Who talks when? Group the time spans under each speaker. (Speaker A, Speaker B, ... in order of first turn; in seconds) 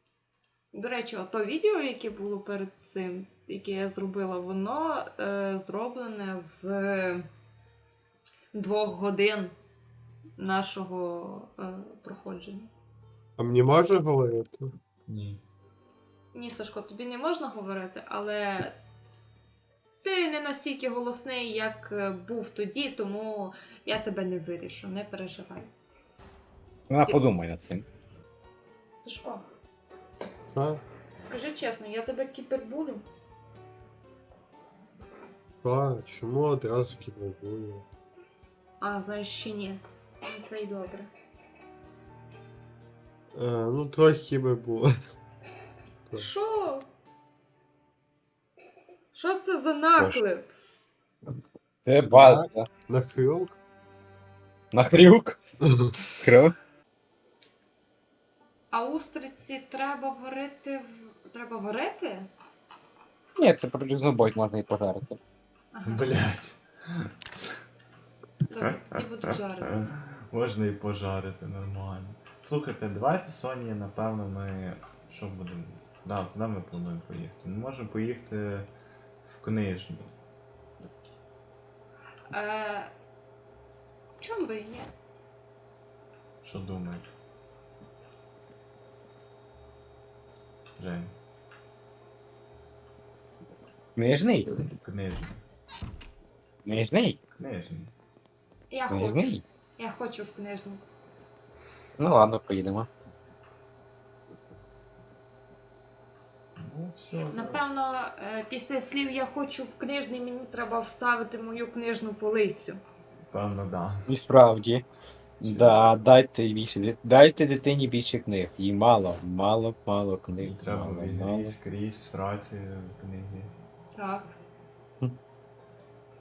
Speaker A: 0.7-7.2, 8.5-9.5, 10.4-12.7, 16.3-18.8, 20.0-25.7, 29.0-29.4, 31.2-33.0, 38.8-41.1, 46.1-46.9, 49.1-50.5, 58.7-62.3, 65.7-66.0, 68.5-69.9, 82.3-82.9, 84.2-84.9, 98.7-100.8, 107.3-112.8, 123.9-124.3
Speaker B: 13.4-14.7, 30.5-30.8, 35.6-37.8, 43.3-44.9, 52.1-53.6
Speaker C: 15.1-15.4, 65.8-67.6, 68.6-78.7, 79.4-80.1, 86.4-87.1, 90.8-91.1, 94.6-95.4, 97.3-97.9, 106.6-107.6, 113.3-114.0, 115.4-115.9, 120.4-123.5
Speaker D: 26.9-27.8, 51.9-52.7, 54.7-55.4, 56.2-56.5, 63.4-65.2, 94.0-94.6, 96.7-97.2, 98.9-99.4, 102.0-102.9, 114.1-114.8, 115.4-121.5